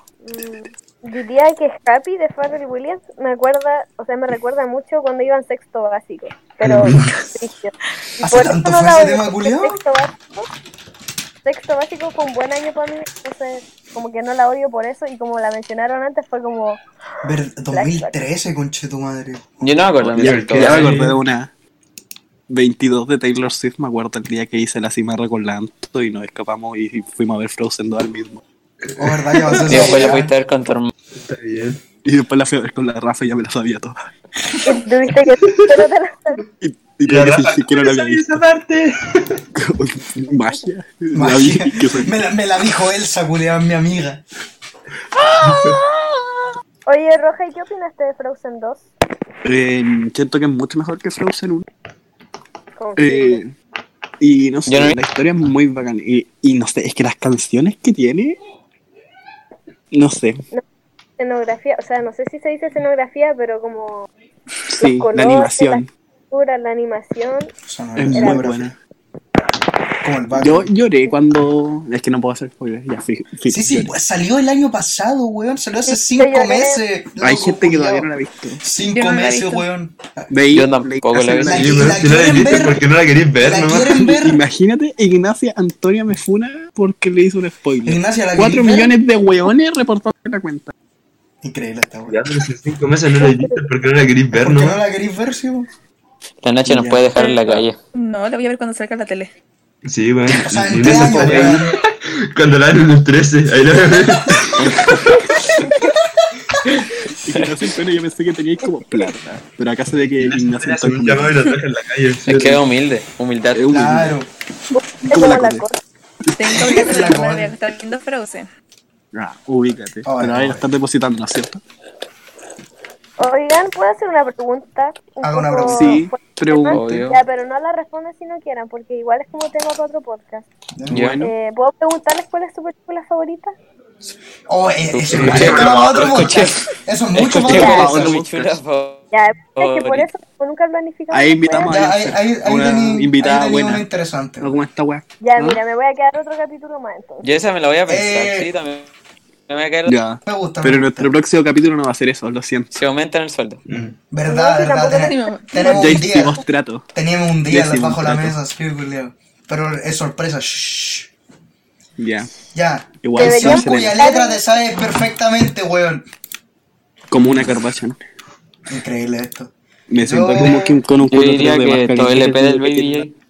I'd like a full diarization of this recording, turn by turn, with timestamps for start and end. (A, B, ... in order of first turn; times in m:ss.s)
0:00.2-0:10.5 A
0:06.6-0:07.1 B
0:08.2-0:09.8 C
0:11.4-0:16.8 A
0:17.2-0:19.6 C
0:17.7-0:18.2 A
0:19.6-0:21.0 D
0:20.0-0:21.2 B
0:20.2-0:21.5 E
0:22.5-0:28.4 E
0:29.0-0:30.3 C
0:29.6-0:30.9 D
0:31.1-0:31.8 B
0:32.0-0:34.1 E
0:34.6-0:36.4 A
0:36.6-0:38.4 E
0:37.1-0:39.4 B
0:39.5-0:42.1 E
0:41.1-0:44.2 C
0:45.2-0:45.8 E
0:45.5-0:45.8 B
0:46.9-0:48.9 A
0:49.4-0:51.6 E
0:52.8-0:53.4 A
0:53.0-0:53.5 E
0:54.2-0:58.4 E
0:54.7-0:55.0 D
0:59.9-1:00.4 E
1:01.2-1:04.1 A
1:04.7-1:05.9 E
1:04.8-1:07.5 A
1:07.6-1:08.7 C
1:08.0-1:08.8 E
1:08.1-1:08.4 A
1:10.0-1:10.7 C
1:10.3-1:13.9 E
1:13.5-1:20.3 C
1:15.9-1:16.8 A
1:17.2-1:18.6 E
1:18.9-1:19.6 F
1:20.3-1:21.9 E
1:20.5-1:21.8 D
1:21.1-1:22.8 C
1:21.5-1:24.0 B
1:23.4-1:24.4 C
1:23.9-1:30.7 E
1:27.8-1:28.9 C
1:31.4-1:32.3 C
1:32.1-1:34.8 B
1:33.2-1:33.5 A
1:34.3-1:35.7 C
1:36.4-1:37.8 D
1:36.7-1:37.6 E
1:37.9-1:39.3 F
1:39.8-1:45.4 B
1:40.3-1:41.8 C
1:40.9-1:41.6 D
1:44.6-1:45.1 D
1:45.6-1:46.2 C
1:46.6-1:47.5 D
1:47.2-1:51.5 E
1:50.2-1:52.6 B
1:52.2-1:53.7 D
1:53.5-1:54.2 E
1:53.7-1:54.3 C
1:54.7-1:55.8 A
1:55.0-1:55.6 E
1:56.3-1:56.8 E
1:56.4-1:58.5 F
1:56.5-1:57.6 C
1:59.1-2:01.6 E
2:00.0-2:00.7 C
2:03.2-2:10.5 A
2:05.2-2:06.0 C
2:05.7-2:07.0 E
2:06.7-2:07.2 D
2:10.8-2:11.1 C
2:10.9-2:11.3 E
2:10.9-2:11.2 D
2:11.2-2:13.5 A
2:14.5-2:18.2 C
2:14.9-2:20.1 D
2:15.1-2:16.1 B
2:17.4-2:18.6 E
2:17.5-2:17.8 A
2:19.1-2:21.8 A
2:21.1-2:23.8 E
2:21.6-2:24.6 C
2:24.4-2:25.6 E
2:25.2-2:27.2 A
2:27.2-2:28.9 D
2:27.9-2:28.5 C
2:29.5-2:30.0 D
2:29.8-2:32.7 E
2:30.2-2:31.1 C
2:32.7-2:33.6 D
2:33.7-2:34.0 B
2:34.1-2:36.4 C
2:34.2-2:36.2 A
2:34.8-2:35.7 F
2:35.6-2:36.8 E
2:36.9-2:41.1 C
2:37.5-2:38.4 E
2:42.0-2:42.3 E
2:42.5-2:46.0 C
2:43.0-2:44.0 E
2:43.2-2:44.6 A
2:47.1-2:48.0 E
2:48.7-2:50.7 C
2:49.9-2:53.0 E
2:51.1-2:53.1 D